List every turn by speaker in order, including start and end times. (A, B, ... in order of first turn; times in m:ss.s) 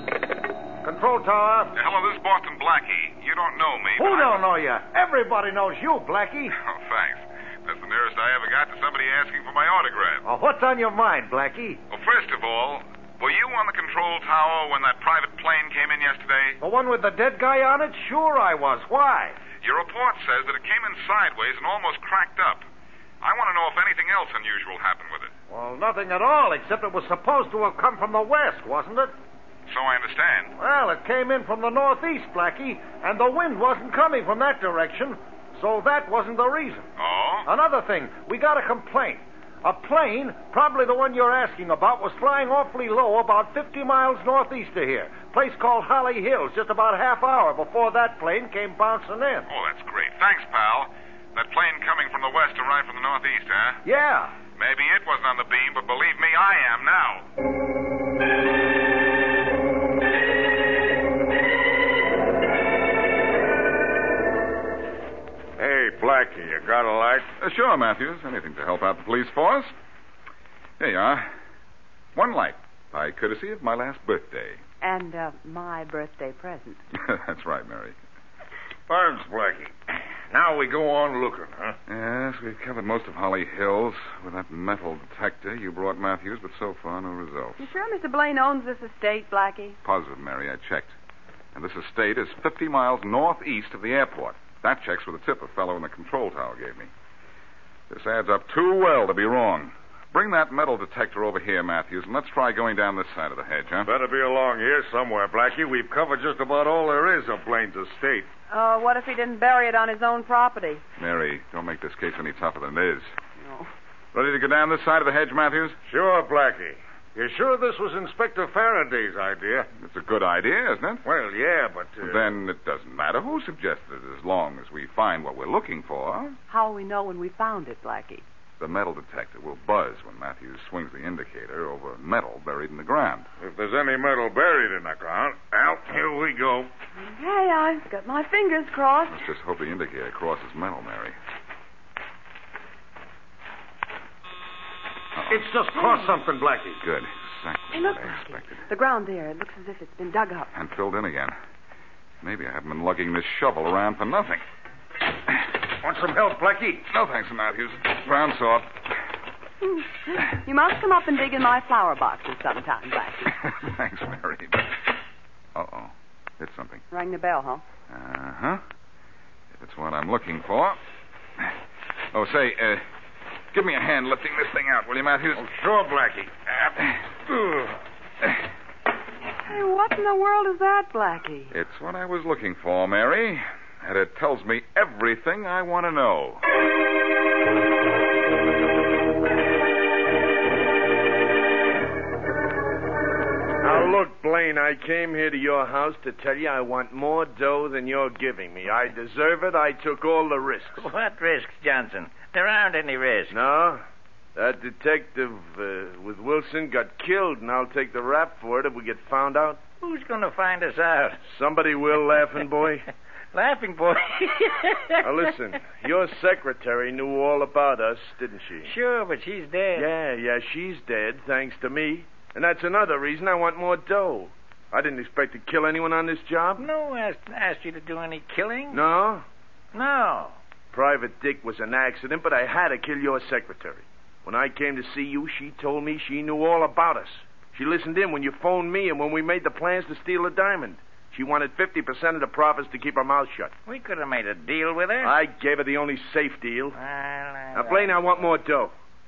0:00.8-0:01.8 A
0:01.8-0:04.4 B
0:04.0-0:06.5 A
0:06.5-0:10.2 B
0:10.2-0:11.8 A
0:11.9-0:16.6 B
0:16.6-0:19.4 A
0:19.6-0:22.7 B
0:23.2-0:25.3 B
0:25.5-0:29.1 A
0:29.7-0:30.6 B
0:30.6-0:36.9 A
0:37.0-0:37.5 B
0:37.5-0:49.5 A
0:49.5-0:53.8 B
0:53.8-0:54.4 A
0:54.6-0:57.3 B
1:05.6-1:07.3 C
1:07.4-1:09.7 B
1:10.8-1:11.3 B
1:12.2-1:14.6 B
1:14.8-1:16.8 D
1:16.9-1:18.0 B
1:18.9-1:19.7 C
1:20.3-1:21.8 C
1:21.9-1:27.7 B
1:27.6-1:29.8 D
1:29.8-1:31.0 B
1:31.6-1:36.9 B
1:37.9-1:43.9 B
1:43.8-1:48.3 C
1:48.5-1:50.8 D
1:51.0-1:53.1 B
1:54.1-1:55.8 B
1:55.9-1:59.7 C
1:59.8-2:01.0 B
2:01.0-2:02.3 C
2:02.0-2:06.4 B
2:06.5-2:08.2 D
2:08.6-2:13.3 B
2:13.4-2:16.7 C
2:17.0-2:19.2 D
2:19.1-2:21.2 B
2:25.2-2:26.0 B
2:25.3-2:26.8 A
2:26.8-2:28.6 B
2:27.7-2:30.5 D
2:30.5-2:31.4 B
2:32.2-2:34.4 B
2:35.8-2:36.8 A
2:36.9-2:38.9 B
2:39.6-2:43.3 D
2:43.3-2:44.8 B
2:45.6-2:46.8 B
2:46.9-2:47.6 D
2:47.9-2:48.6 B
2:49.5-2:50.8 B
2:52.1-2:52.9 B
2:53.5-2:55.5 B
2:55.4-2:56.4 C
2:59.5-3:01.5 D
3:01.5-3:06.4 B
3:13.6-3:20.9 E
3:20.8-3:23.4 F
3:23.3-3:23.8 E
3:24.4-3:29.6 E
3:29.8-3:31.2 F
3:31.3-3:32.9 E
3:33.3-3:35.0 F
3:35.0-3:38.7 E
3:38.6-3:39.9 F
3:39.7-3:46.7 E
3:46.6-3:48.8 F
3:48.7-3:49.2 E
3:49.7-3:50.4 F
3:50.7-4:03.5 E
4:03.7-4:05.2 F
4:05.0-4:06.8 E
4:06.8-4:08.0 F
4:07.5-4:08.7 E